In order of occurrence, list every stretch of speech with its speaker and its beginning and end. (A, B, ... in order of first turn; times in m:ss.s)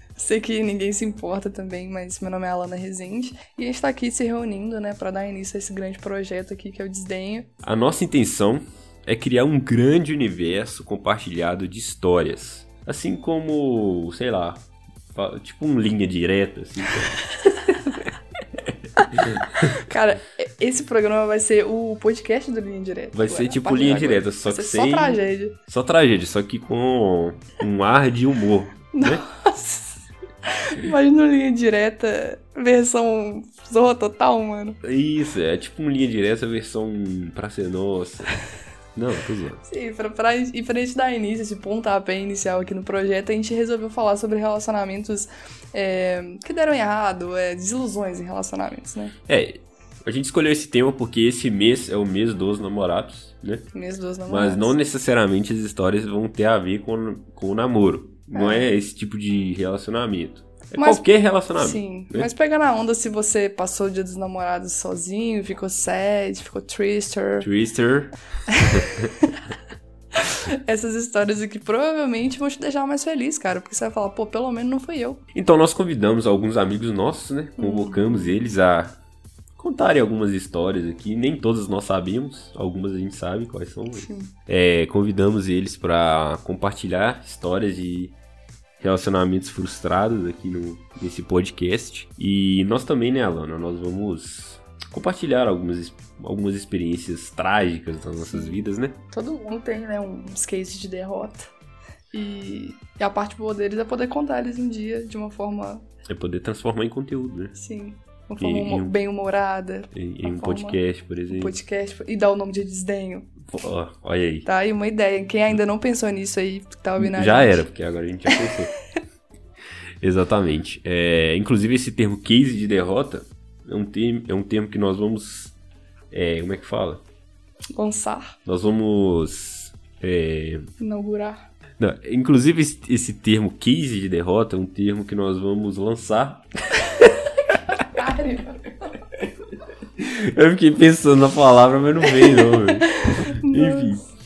0:00.2-0:07.5 A
0:07.6-0:17.2 B
0:17.4-0:17.9 A
0:18.7-0:19.8 B
0:19.9-0:25.6 A
0:23.1-0:29.3 B
0:28.9-0:30.0 A
0:30.7-0:34.8 A
0:34.8-0:38.3 B
0:39.0-0:39.6 B
0:39.6-0:49.1 A
0:49.3-0:53.7 B
0:53.7-0:54.8 A
0:54.3-1:02.3 B
0:58.3-0:58.8 A
1:00.8-1:07.5 A
1:07.4-1:08.1 B
1:08.5-1:09.3 A
1:08.7-1:09.1 B
1:10.7-1:15.2 A
1:15.3-1:19.0 B
1:17.6-1:18.4 A
1:19.6-1:28.2 B
1:24.0-1:24.3 A
1:28.8-1:39.0 B
1:38.3-1:38.6 A
1:39.1-1:41.5 A
1:42.1-1:45.8 A
1:46.1-1:47.6 B
1:47.6-1:50.8 A
1:48.4-1:49.0 B
1:49.9-1:51.6 B
1:51.3-1:53.3 A
1:53.5-1:54.5 B
1:54.4-1:57.6 A
1:57.0-1:58.7 B
2:00.0-2:05.6 B
2:06.1-2:07.0 B
2:07.8-2:08.3 A
2:08.5-2:10.7 B
2:10.8-2:11.4 A
2:11.8-2:17.1 B
2:17.8-2:18.6 A
2:20.0-2:22.9 B
2:22.1-2:24.0 A
2:23.5-2:24.0 B